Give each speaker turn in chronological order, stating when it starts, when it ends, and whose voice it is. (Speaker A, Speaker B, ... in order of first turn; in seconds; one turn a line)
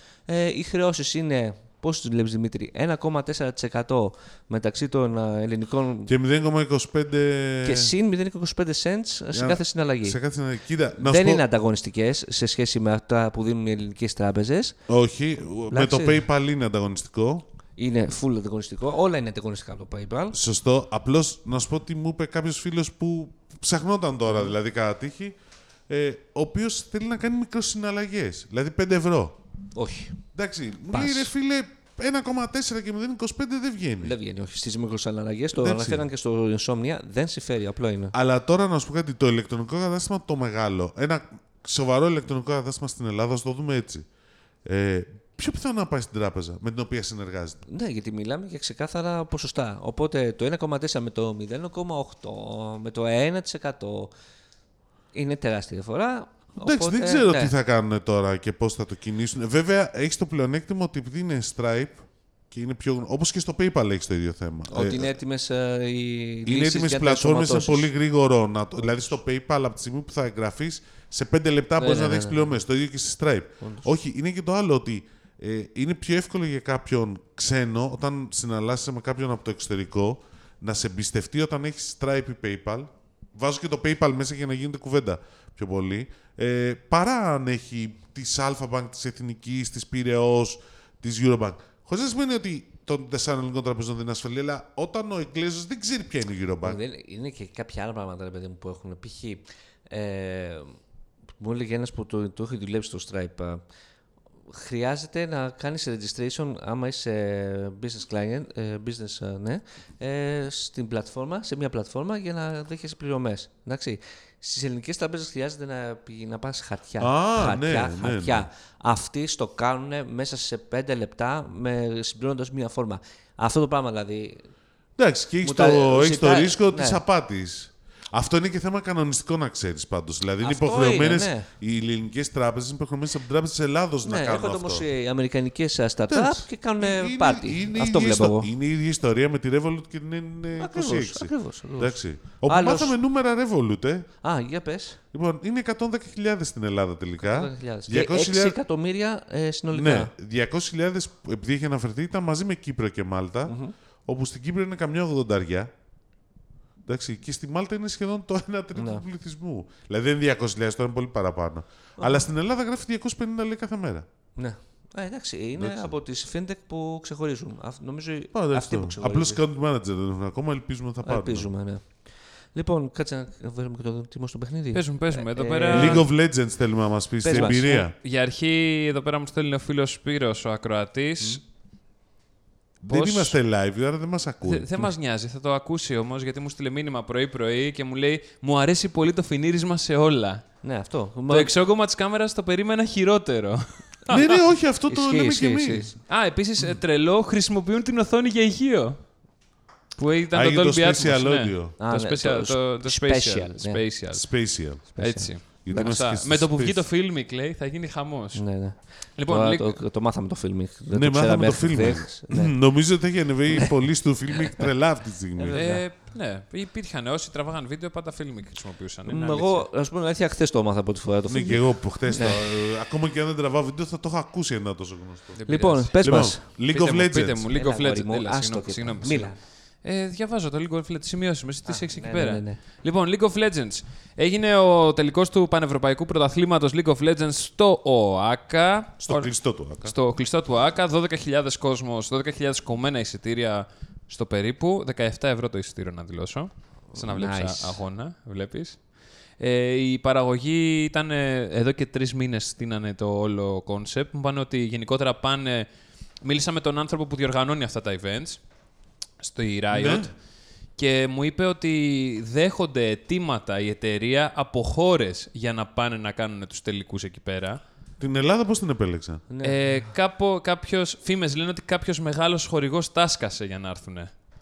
Speaker A: 0.3-6.1
Speaker B: 6.1-7.9
Speaker A: 7.6-10.2
Speaker B: 9.3-11.4
Speaker A: 11.0-14.8
Speaker B: 14.9-17.4
Speaker A: 15.7-16.3
Speaker A: 17.8-20.4
Speaker B: 20.3-25.4
Speaker B: 25.9-29.4
Speaker A: 29.8-30.2
Speaker B: 30.3-34.1
Speaker A: 30.9-31.3
Speaker A: 34.0-38.1
Speaker B: 35.6-36.0
Speaker B: 38.1-44.1
Speaker B: 44.6-47.6
Speaker A: 47.7-54.1
Speaker A: 55.1-57.5
Speaker B: 56.6-65.1
Speaker A: 64.7-67.9
Speaker B: 66.5-96.8
Speaker A: 71.8-72.6
Speaker A: 73.6-73.9
Speaker A: 96.6-100.7
Speaker A: 101.4-103.6
Speaker A: 104.5-124.4
Speaker B: 117.0-118.5
Speaker B: 125.0-134.9
Speaker A: 125.4-127.0
Speaker A: 130.4-131.5
Speaker A: 134.1-138.5
Speaker B: 136.1-144.1
Speaker A: 140.6-142.9
Speaker A: 144.2-145.0
Speaker B: 145.1-148.6
Speaker A: 147.2-150.1
Speaker B: 149.7-153.5
Speaker A: 153.5-153.7
Speaker B: 154.1-155.7
Speaker B: 156.9-164.1
Speaker A: 158.8-159.0
Speaker A: 162.0-162.3
Speaker A: 164.4-169.4
Speaker B: 165.6-165.9
Speaker B: 168.3-171.5
Speaker A: 171.0-171.8
Speaker A: 172.6-176.1
Speaker C: 174.7-176.1
Speaker B: 175.7-177.9
Speaker A: 177.2-177.9
Speaker C: 178.0-181.4
Speaker B: 182.8-184.9
Speaker C: 182.9-183.4
Speaker C: 184.4-190.4
Speaker A: 190.6-191.5
Speaker C: 191.3-194.4
Speaker B: 194.1-195.9
Speaker A: 194.9-196.0
Speaker C: 196.1-199.0
Speaker C: 200.0-208.4
Speaker B: 200.3-201.8
Speaker A: 201.8-203.8
Speaker B: 204.1-204.9
Speaker A: 205.0-205.9
Speaker B: 205.5-206.9
Speaker A: 208.3-212.6
Speaker C: 209.2-209.8
Speaker B: 210.9-215.6
Speaker A: 215.4-215.9
Speaker C: 215.6-219.7
Speaker A: 219.1-222.4
Speaker B: 221.3-225.4
Speaker C: 225.4-255.7
Speaker A: 225.5-226.4
Speaker B: 226.0-227.4
Speaker A: 227.5-229.4
Speaker A: 231.7-232.6
Speaker B: 239.0-239.9
Speaker A: 246.9-247.8
Speaker C: 256.2-258.4
Speaker C: 259.2-260.1
Speaker B: 259.7-260.1
Speaker C: 260.8-267.6
Speaker B: 268.0-269.2
Speaker A: 269.3-269.9
Speaker C: 269.4-274.1